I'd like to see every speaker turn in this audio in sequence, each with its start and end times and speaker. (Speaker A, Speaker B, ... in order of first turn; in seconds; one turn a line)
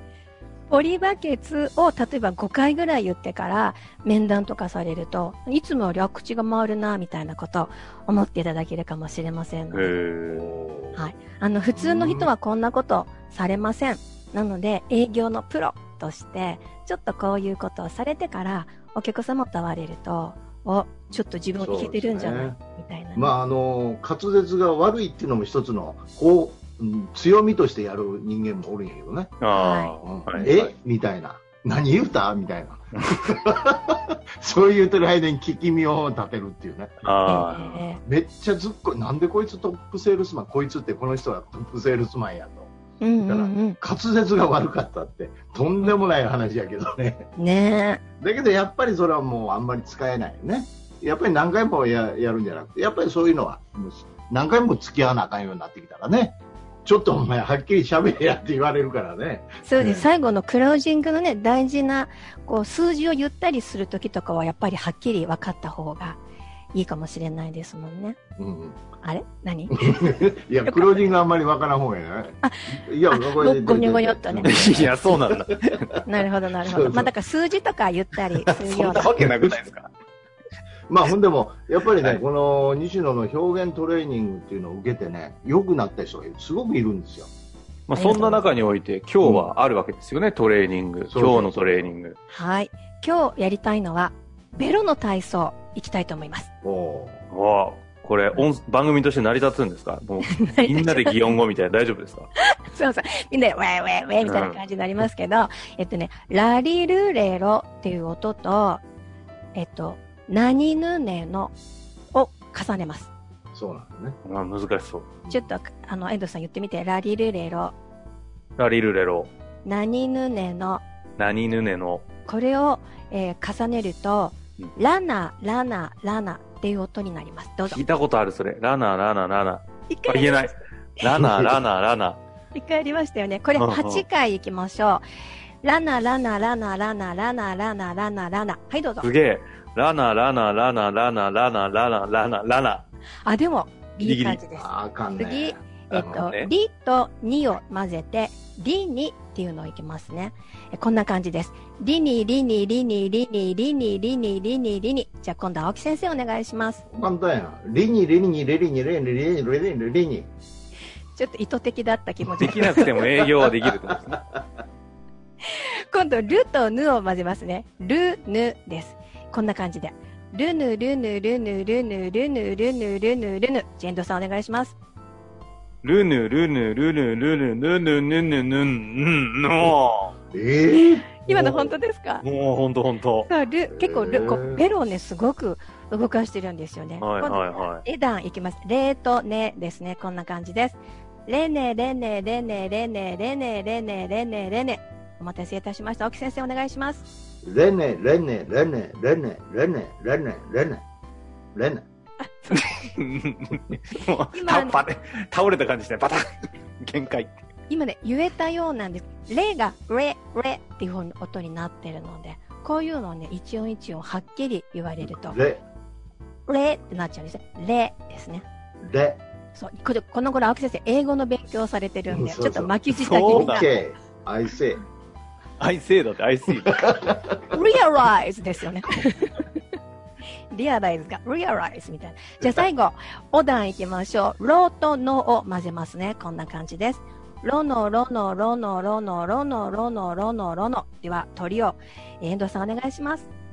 Speaker A: 0.7-9.9
Speaker B: 9.7-10.5
Speaker C: 10.3-11.1
Speaker A: 10.9-23.3
Speaker C: 11.7-12.3
Speaker C: 21.1-22.6
Speaker C: 23.1-29.3
Speaker B: 29.4-30.7
Speaker A: 29.5-30.5
Speaker C: 30.0-36.9
Speaker B: 37.0-37.8
Speaker A: 37.2-38.0
Speaker C: 38.0-42.7
Speaker A: 43.0-43.8
Speaker C: 43.2-47.3
Speaker A: 47.4-48.0
Speaker C: 48.2-60.0
Speaker A: 59.6-66.2
Speaker A: 66.7-68.2
Speaker C: 68.4-68.8
Speaker A: 69.0-71.1
Speaker C: 69.7-74.9
Speaker A: 72.4-74.7
Speaker B: 74.5-76.1
Speaker A: 76.0-79.1
Speaker C: 76.6-77.1
Speaker B: 78.4-79.9
Speaker C: 79.0-79.6
Speaker C: 80.9-87.3
Speaker B: 87.9-92.2
Speaker A: 87.9-88.4
Speaker C: 89.2-89.5
Speaker C: 91.1-91.9
Speaker A: 92.3-96.5
Speaker C: 96.6-97.2
Speaker B: 97.3-102.3
Speaker A: 100.3-101.3
Speaker A: 102.7-108.8
Speaker B: 104.2-104.6
Speaker A: 109.5-111.5
Speaker A: 112.1-113.1
Speaker C: 113.5-114.2
Speaker B: 114.2-115.1
Speaker C: 115.2-115.5
Speaker A: 115.3-117.7
Speaker B: 118.6-119.3
Speaker A: 119.6-120.8
Speaker B: 121.2-122.1
Speaker A: 122.3-127.8
Speaker B: 127.7-132.2
Speaker A: 129.9-130.6
Speaker C: 131.1-131.6
Speaker A: 132.5-135.0
Speaker B: 133.6-134.0
Speaker A: 135.6-139.1
Speaker B: 139.0-142.8
Speaker A: 143.2-156.8
Speaker B: 144.0-144.4
Speaker C: 144.5-146.2
Speaker B: 145.9-146.5
Speaker C: 156.9-160.3
Speaker A: 161.2-162.9
Speaker B: 162.4-164.2
Speaker C: 163.2-164.2
Speaker A: 165.5-174.8
Speaker B: 175.8-180.2
Speaker C: 180.3-181.8
Speaker A: 181.2-182.2
Speaker B: 182.2-183.3
Speaker A: 183.2-197.0
Speaker C: 183.7-184.6
Speaker B: 187.0-187.8
Speaker C: 197.4-200.8
Speaker C: 201.5-201.8
Speaker A: 202.2-202.8
Speaker B: 202.5-207.4
Speaker A: 204.3-204.8
Speaker A: 207.7-215.4
Speaker C: 215.0-215.6
Speaker A: 216.5-218.4
Speaker C: 218.8-219.2
Speaker A: 219.5-223.7
Speaker C: 222.1-224.8
Speaker B: 222.9-223.7
Speaker B: 225.6-227.0
Speaker C: 226.8-227.4
Speaker A: 227.5-229.4
Speaker A: 230.5-243.3